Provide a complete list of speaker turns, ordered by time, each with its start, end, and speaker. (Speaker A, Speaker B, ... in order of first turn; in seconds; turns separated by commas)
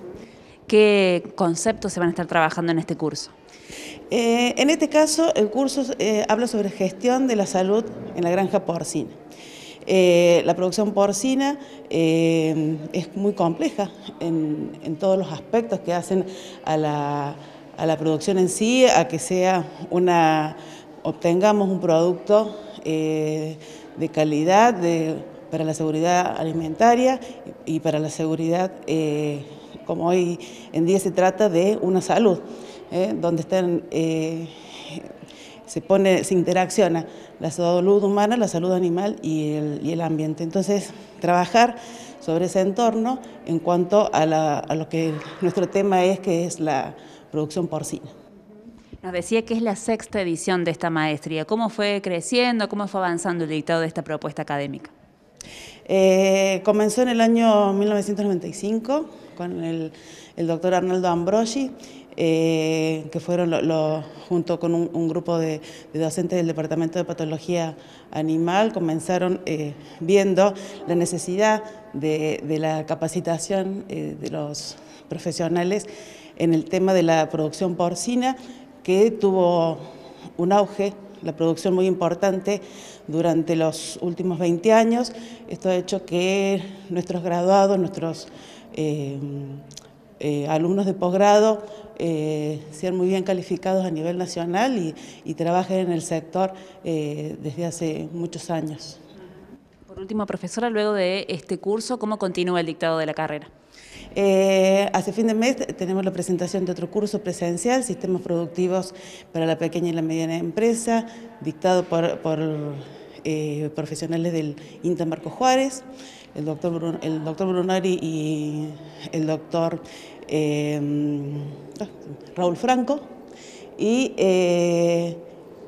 Speaker A: 0.7-3.3, Speaker B: 4.1-9.1, Speaker B: 9.8-35.1, Speaker B: 35.7-48.1, Speaker A: 49.0-54.9, Speaker B: 55.9-79.8, Speaker B: 80.4-89.6, Speaker B: 90.2-99.0, Speaker A: 99.9-103.5, Speaker B: 104.1-115.8, Speaker B: 116.3-123.0, Speaker B: 123.8-125.2